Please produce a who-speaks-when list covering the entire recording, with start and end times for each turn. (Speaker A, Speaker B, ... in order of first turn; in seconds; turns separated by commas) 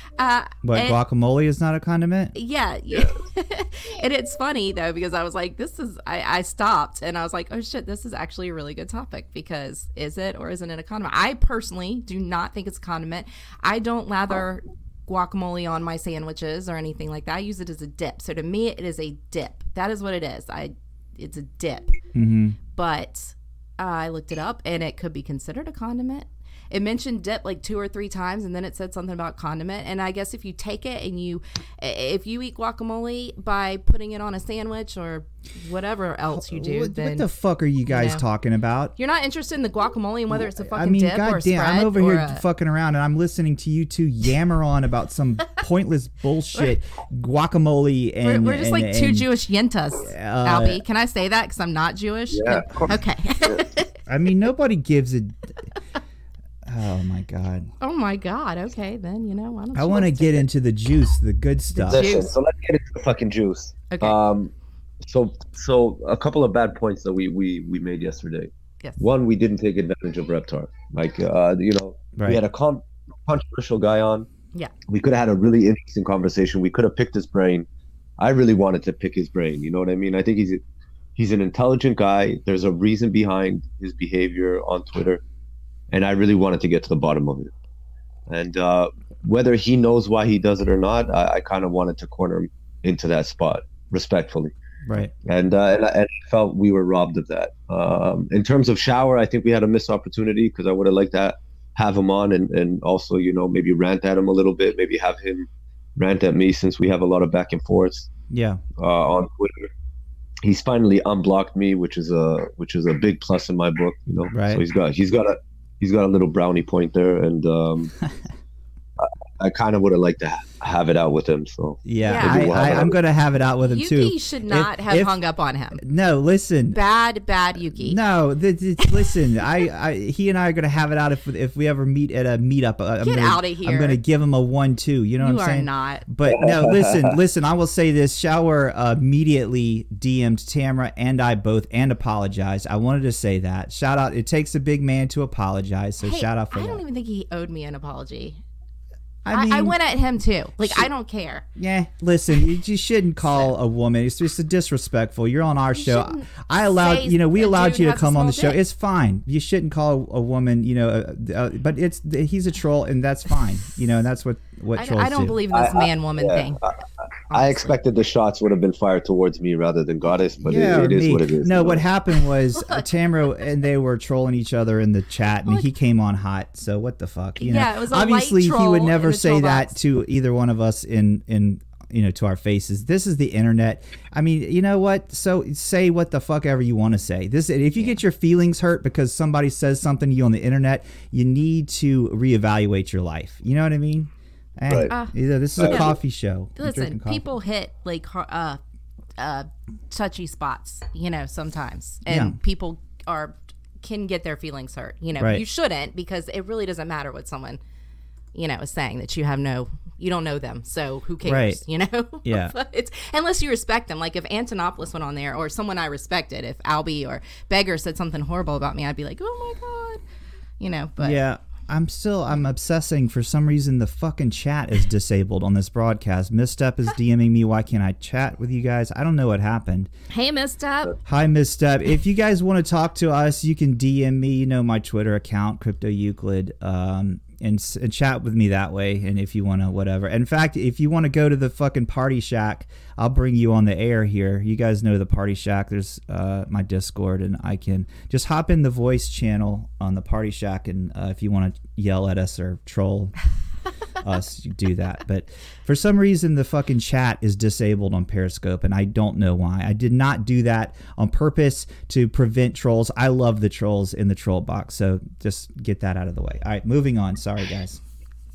Speaker A: 0.2-1.0, Speaker B: 0.6-2.4, Speaker A: 2.4-21.9, Speaker B: 22.1-22.6, Speaker A: 22.7-37.3, Speaker B: 36.3-38.9, Speaker A: 37.9-38.2, Speaker A: 39.0-42.4, Speaker B: 40.3-49.3, Speaker A: 48.2-53.9, Speaker B: 50.0-50.8, Speaker C: 52.3-53.6, Speaker B: 54.1-55.5, Speaker B: 56.7-57.7, Speaker A: 57.8-60.5, Speaker B: 59.8-62.1, Speaker A: 61.8-62.3, Speaker C: 61.9-74.3, Speaker A: 63.9-64.2, Speaker B: 72.2-72.4, Speaker C: 74.9-77.7, Speaker C: 78.2-80.6, Speaker C: 81.2-85.2, Speaker C: 85.9-87.5, Speaker C: 88.3-94.5, Speaker B: 94.9-95.1, Speaker C: 95.3-108.1, Speaker B: 108.3-108.6, Speaker C: 108.8-109.7, Speaker C: 110.4-117.9, Speaker B: 114.3-114.6, Speaker C: 119.0-123.0, Speaker B: 121.9-125.2, Speaker A: 122.0-122.8, Speaker A: 123.6-125.8, Speaker B: 125.8-126.8, Speaker A: 126.7-128.0, Speaker B: 127.8-146.8, Speaker A: 133.0-134.0, Speaker A: 135.2-136.1, Speaker C: 136.3-137.1, Speaker A: 146.0-148.4, Speaker B: 149.2-149.8, Speaker A: 149.3-151.4, Speaker B: 150.6-150.9, Speaker B: 151.6-165.4, Speaker A: 153.2-153.5, Speaker A: 155.8-158.6, Speaker A: 164.8-166.6, Speaker C: 165.5-166.8, Speaker A: 167.3-167.8, Speaker C: 167.3-171.8, Speaker B: 170.4-197.3, Speaker A: 172.6-172.8, Speaker A: 177.4-179.8, Speaker A: 194.9-196.0, Speaker C: 195.6-195.9, Speaker A: 196.6-198.6, Speaker A: 199.2-207.6, Speaker B: 202.1-202.4, Speaker A: 208.3-220.0, Speaker B: 211.2-211.6, Speaker B: 212.2-212.5, Speaker A: 220.6-221.2, Speaker B: 221.0-229.9, Speaker A: 230.1-230.9, Speaker B: 231.1-253.2, Speaker B: 254.0-267.8